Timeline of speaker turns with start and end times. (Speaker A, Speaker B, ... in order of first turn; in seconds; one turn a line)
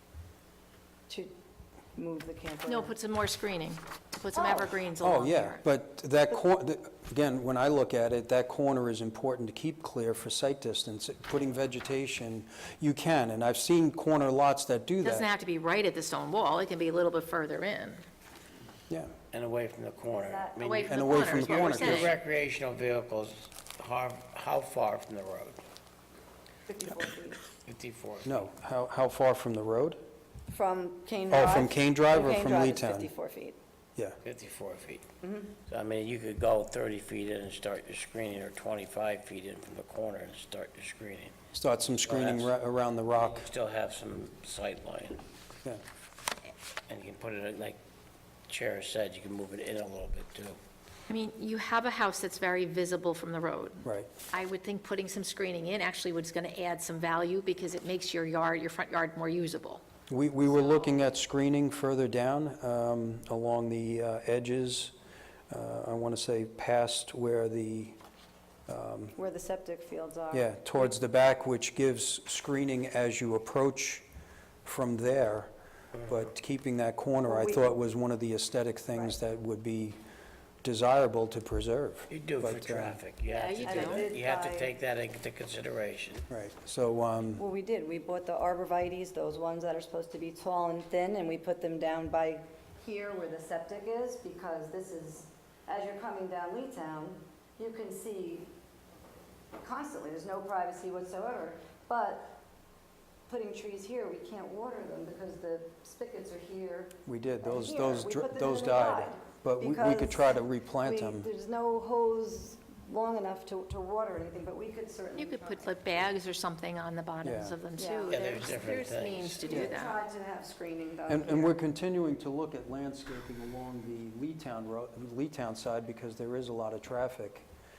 Speaker A: 1.9-2.9
Speaker B: 2.7-5.6
Speaker A: 4.3-4.8
Speaker C: 5.0-15.3
Speaker B: 15.0-18.0
Speaker D: 19.3-25.6
Speaker A: 20.2-20.7
Speaker B: 20.6-22.1
Speaker C: 20.9-22.1
Speaker A: 26.7-27.4
Speaker D: 27.6-28.5
Speaker C: 28.2-30.0
Speaker A: 30.5-33.6
Speaker C: 31.3-33.1
Speaker D: 34.2-35.0
Speaker A: 35.2-35.5
Speaker D: 35.7-41.3
Speaker C: 41.5-43.5
Speaker D: 41.9-42.5
Speaker D: 43.1-45.2
Speaker D: 46.9-47.8
Speaker D: 48.5-50.6
Speaker B: 51.1-59.8
Speaker C: 53.8-54.1
Speaker C: 60.1-64.9
Speaker B: 60.5-61.0
Speaker C: 65.5-68.0
Speaker C: 68.7-69.1
Speaker A: 69.2-70.6
Speaker C: 70.3-74.0
Speaker C: 74.6-75.5
Speaker C: 76.0-80.0
Speaker A: 77.2-77.7
Speaker C: 80.6-83.0
Speaker D: 82.1-86.2
Speaker B: 83.3-84.1
Speaker A: 83.6-84.7
Speaker C: 86.3-87.4
Speaker A: 87.3-98.5
Speaker A: 99.6-102.3
Speaker A: 103.3-116.1
Speaker C: 107.0-111.3
Speaker B: 115.2-120.0
Speaker C: 117.2-117.6
Speaker A: 117.8-118.2
Speaker D: 118.1-119.7
Speaker A: 119.4-121.6
Speaker C: 121.1-127.5